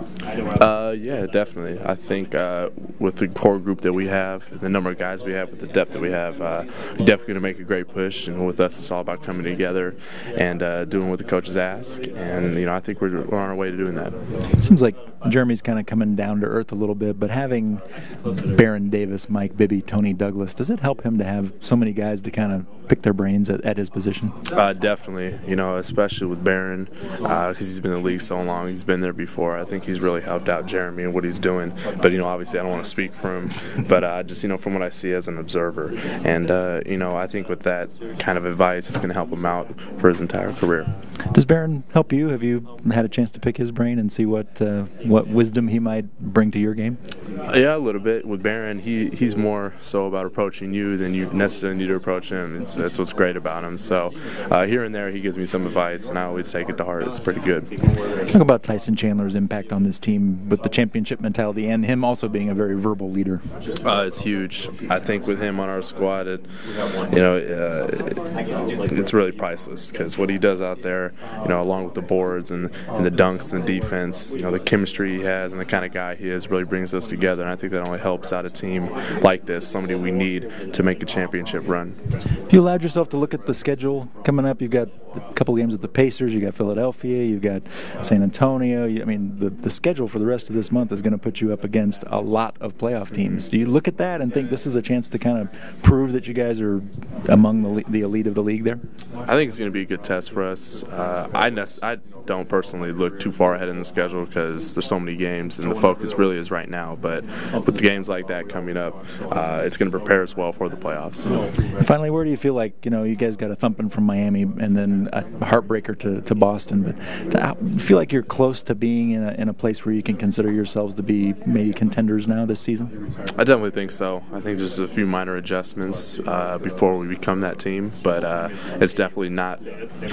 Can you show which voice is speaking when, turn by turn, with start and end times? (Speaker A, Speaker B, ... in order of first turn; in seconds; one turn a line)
Speaker A: 0.5-14.2
Speaker B: 14.6-24.4
Speaker A: 24.5-40.9
Speaker B: 41.3-47.0
Speaker A: 47.5-57.8
Speaker B: 58.2-63.4
Speaker A: 63.8-82.0
Speaker B: 82.5-98.8
Speaker A: 99.2-111.4
Speaker B: 111.7-122.9
Speaker A: 123.4-129.6